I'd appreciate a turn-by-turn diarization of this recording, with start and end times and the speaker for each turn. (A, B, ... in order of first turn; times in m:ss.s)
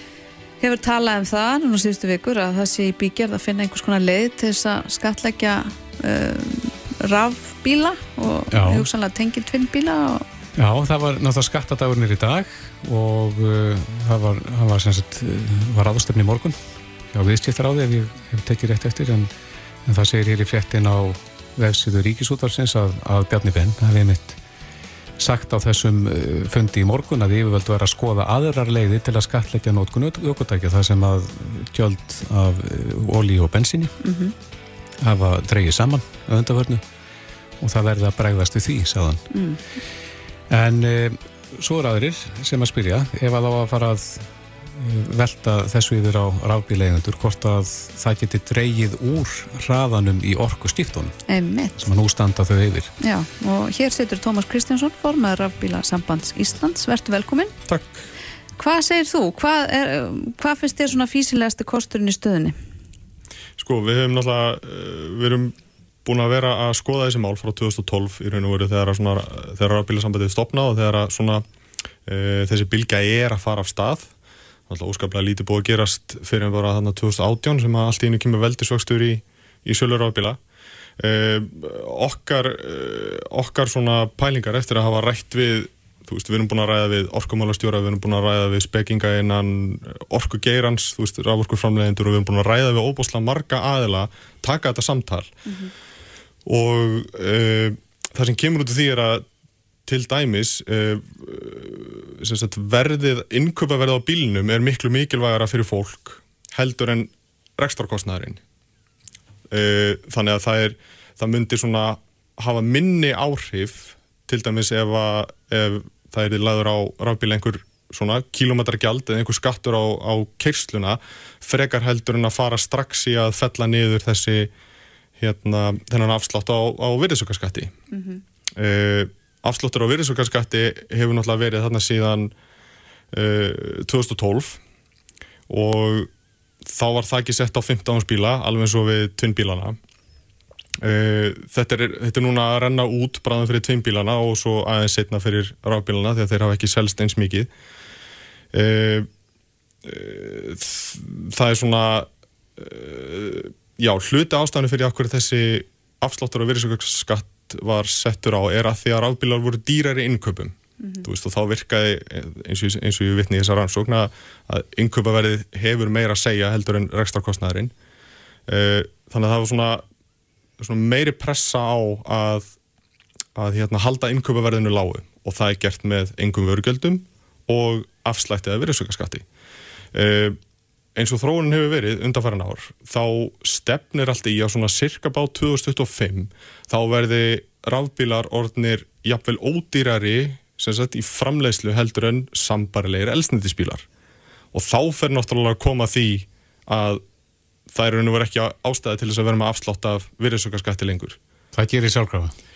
0:00.6-0:10.2 A
0:08.5-0:08.9 B
0:10.6-0:16.6 B
0:17.1-0:19.3 B
0:19.9-0:24.4 B
0:25.2-0:33.9 B
0:34.0-0:34.3 A
0:35.0-0:36.8 B
0:37.6-0:39.3 B
0:39.3-0:39.6 A
0:40.5-0:51.2 B
0:51.3-0:51.8 A
0:51.8-0:52.9 B
0:53.0-0:57.5 A
0:57.7-0:58.0 C
0:58.6-1:02.6 A
1:03.6-1:05.5 C
1:06.1-1:11.4 C
1:12.1-1:14.1 C
1:14.7-1:20.4 C
1:21.0-1:35.4 C
1:35.5-1:35.7 A
1:36.5-1:39.2 C
1:39.9-1:48.4 C
1:49.5-2:04.5 C
2:05.2-2:07.7 C
2:07.9-2:08.2 A
2:08.6-2:12.3 C
2:13.1-2:14.6 C
2:15.5-2:16.1 C
2:16.7-2:19.8 C
2:20.8-2:27.5 C
2:28.5-2:29.1 C
2:29.8-2:47.7 C
2:48.5-2:49.8 C
2:50.6-2:52.5 C
2:53.4-2:59.2 C
2:59.9-3:00.4 C
3:01.0-3:13.8 C
3:14.5-3:17.0 C
3:17.7-3:21.2 C
3:21.5-3:22.3 B